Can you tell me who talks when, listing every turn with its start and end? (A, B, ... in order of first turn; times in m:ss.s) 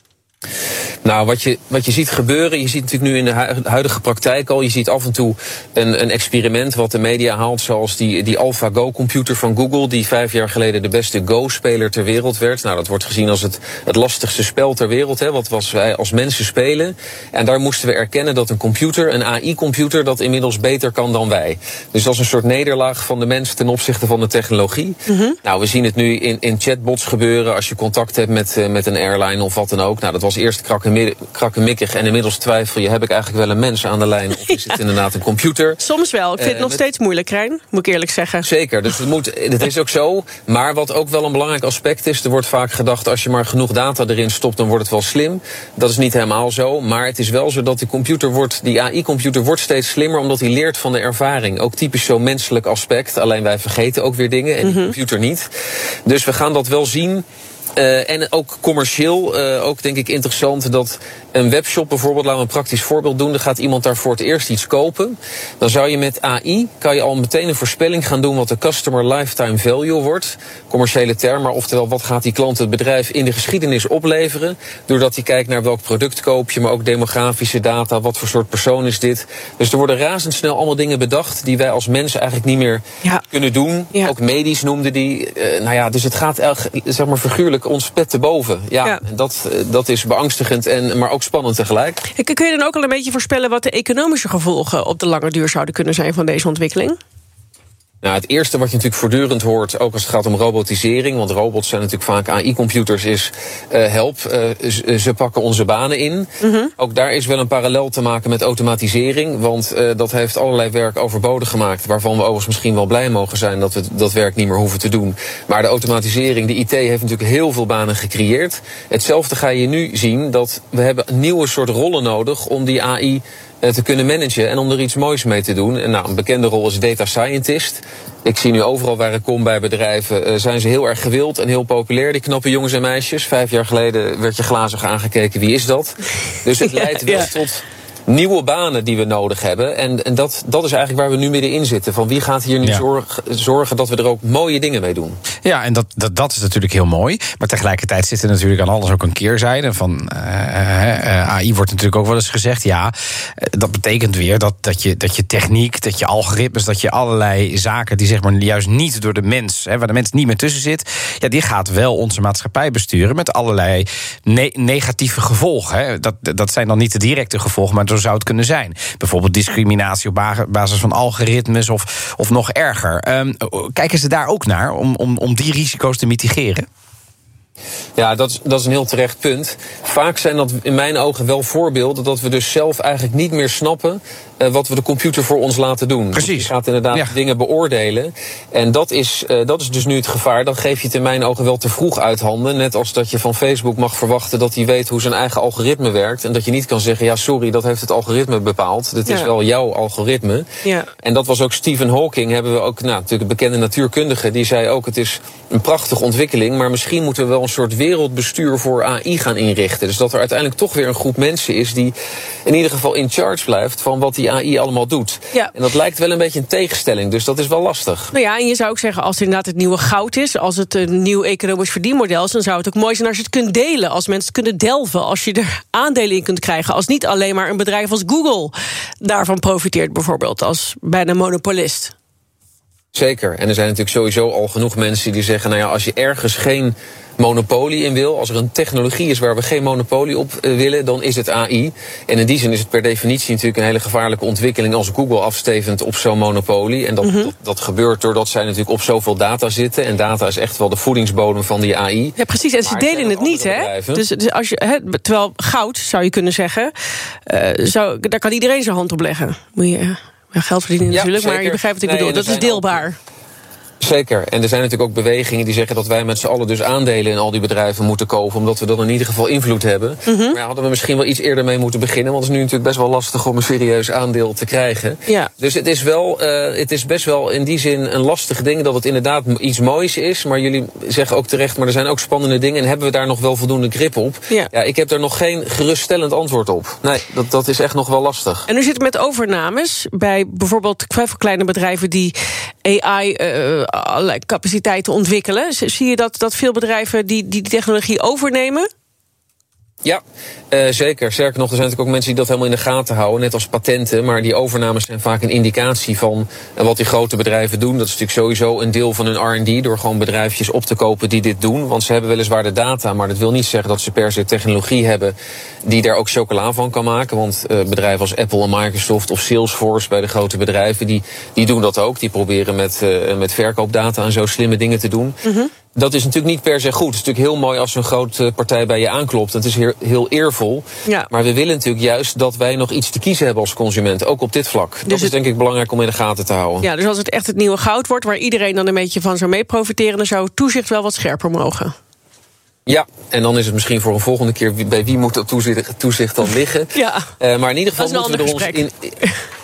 0:01.0-0:35.8 A
0:25.1-0:25.4 B
0:35.8-0:38.5 B
0:36.4-0:36.8 A
0:38.4-0:55.5 A
0:54.6-0:54.9 B
0:56.1-0:57.2 A
0:57.8-1:32.0 A
1:32.1-1:37.0 B
1:38.0-2:25.2 A
1:46.4-1:46.7 B
2:16.6-2:17.3 B
2:25.4-2:56.7 C
2:58.0-3:20.5 A
3:06.1-3:07.1 C
3:19.1-3:19.3 B
3:20.6-3:20.9 B
3:21.0-3:38.1 A
3:38.1-3:51.9 B
3:52.9-4:14.0 A
4:07.0-4:07.3 B
4:12.2-4:16.7 B
4:17.3-4:23.0 B
4:20.9-4:22.9 A
4:23.8-4:48.5 A
4:30.1-4:30.4 B
4:48.5-4:58.7 B
4:59.8-5:25.2 A
5:25.2-5:25.5 B
5:25.7-5:36.7 A
5:34.9-5:35.1 B
5:36.6-5:41.7 B
5:42.7-5:49.0 A
5:46.7-5:47.1 B
5:47.8-5:49.2 B